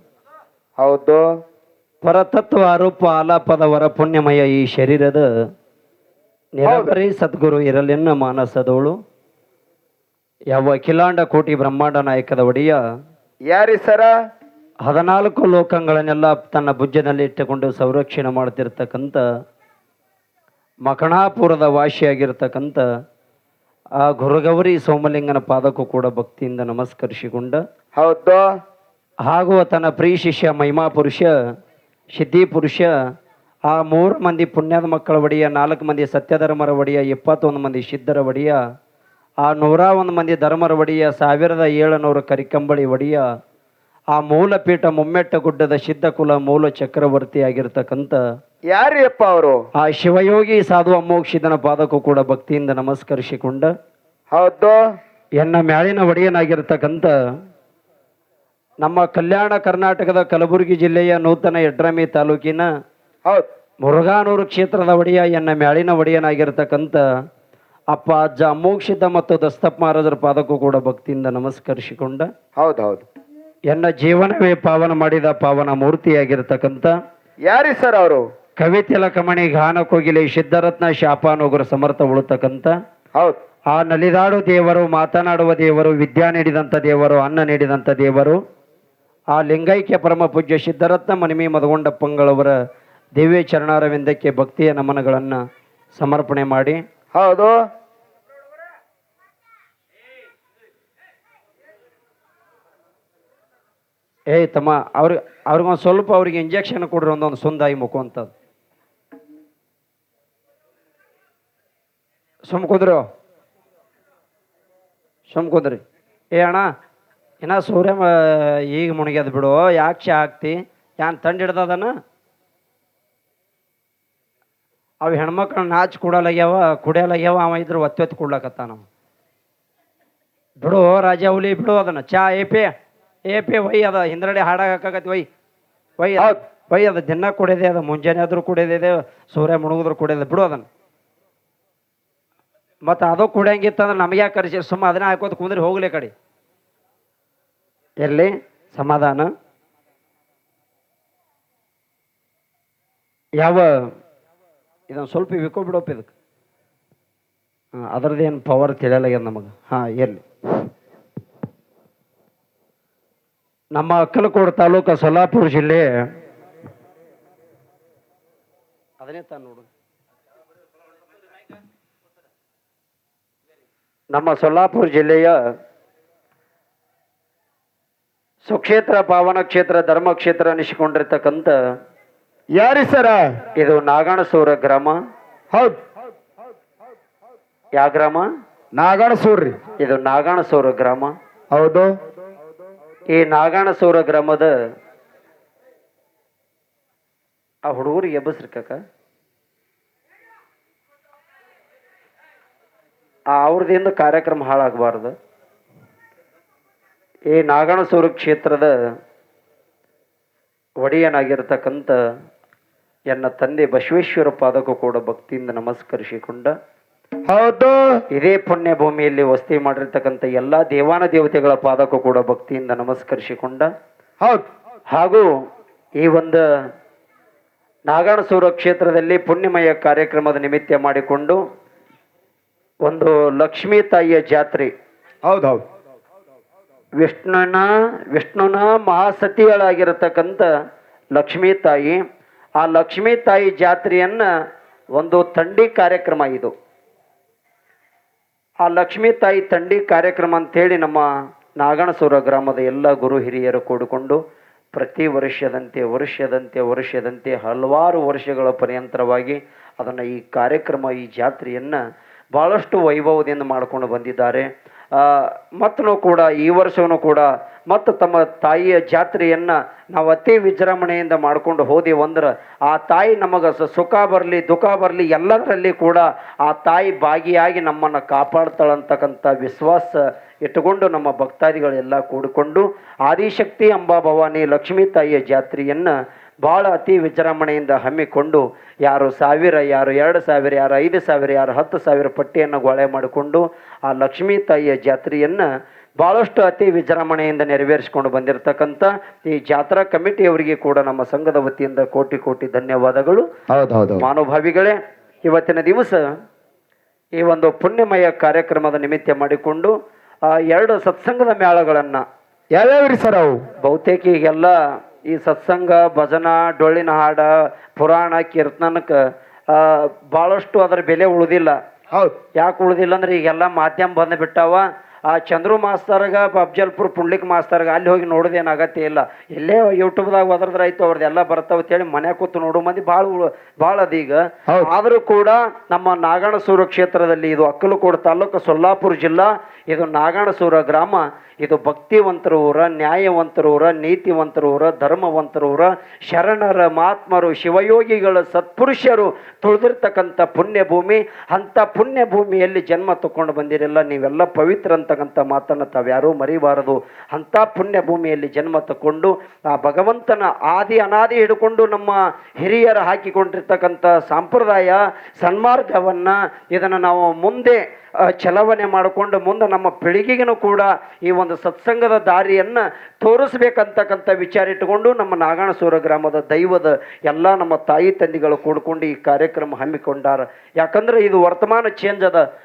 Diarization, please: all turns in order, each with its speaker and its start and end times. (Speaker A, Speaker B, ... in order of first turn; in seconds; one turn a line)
Speaker A: 0.8-1.3
Speaker B: 2.0-5.3
Speaker B: 6.5-8.9
Speaker A: 6.7-7.0
Speaker B: 10.5-12.8
Speaker A: 13.5-14.1
Speaker B: 14.8-19.2
Speaker B: 20.8-22.8
Speaker B: 24.0-27.6
Speaker A: 28.0-28.5
Speaker B: 29.3-31.3
Speaker B: 32.1-32.9
Speaker B: 33.7-38.6
Speaker B: 39.4-43.2
Speaker B: 44.1-48.2
Speaker A: 48.7-49.6
Speaker B: 49.8-53.7
Speaker A: 54.3-54.8
Speaker B: 55.4-57.1
Speaker B: 58.8-62.7
Speaker B: 63.8-67.0
Speaker B: 67.9-72.3
Speaker A: 72.6-73.0
Speaker B: 73.7-76.9
Speaker A: 77.4-78.2
Speaker B: 78.6-82.7
Speaker B: 83.7-88.4
Speaker B: 89.3-92.5
Speaker B: 93.2-95.4
Speaker B: 95.9-96.8
Speaker A: 97.1-97.6
Speaker B: 104.3-108.3
Speaker B: 112.5-113.0
Speaker B: 115.3-115.8
Speaker B: 116.3-116.7
Speaker B: 117.4-121.9
Speaker B: 125.0-128.8
Speaker B: 130.6-132.7
Speaker B: 133.3-135.3
Speaker B: 136.0-140.7
Speaker B: 142.8-146.1
Speaker B: 148.0-149.3
Speaker B: 153.4-153.7
Speaker B: 154.9-156.1
Speaker B: 157.8-160.2
Speaker B: 163.7-165.9
Speaker B: 169.0-169.7
Speaker B: 174.1-175.3
Speaker B: 178.4-181.5
Speaker A: 182.5-183.4
Speaker B: 183.6-185.0
Speaker A: 185.5-185.8
Speaker B: 187.8-188.3
Speaker A: 188.7-189.6
Speaker B: 189.8-191.1
Speaker A: 191.5-191.9
Speaker B: 193.1-194.5
Speaker B: 197.7-198.8
Speaker B: 203.3-205.1
Speaker B: 207.3-208.7
Speaker B: 210.8-212.0
Speaker B: 213.1-216.5
Speaker A: 217.3-217.9
Speaker B: 218.1-223.7
Speaker A: 224.2-224.4
Speaker B: 224.9-225.3
Speaker B: 226.0-226.4
Speaker B: 227.9-231.4
Speaker B: 232.8-234.7
Speaker A: 235.2-235.6
Speaker B: 237.0-240.5
Speaker B: 241.1-242.0
Speaker B: 242.6-244.2
Speaker B: 244.9-246.5
Speaker B: 248.6-251.1
Speaker B: 251.6-254.2
Speaker B: 254.7-261.8
Speaker B: 262.3-295.5
Speaker B: 296.0-303.3
Speaker A: 303.5-304.0
Speaker B: 304.0-306.0
Speaker B: 307.2-309.7
Speaker B: 310.3-312.0
Speaker A: 312.5-313.4
Speaker B: 313.6-314.5
Speaker B: 315.1-319.0
Speaker B: 319.5-321.6
Speaker B: 322.4-382.2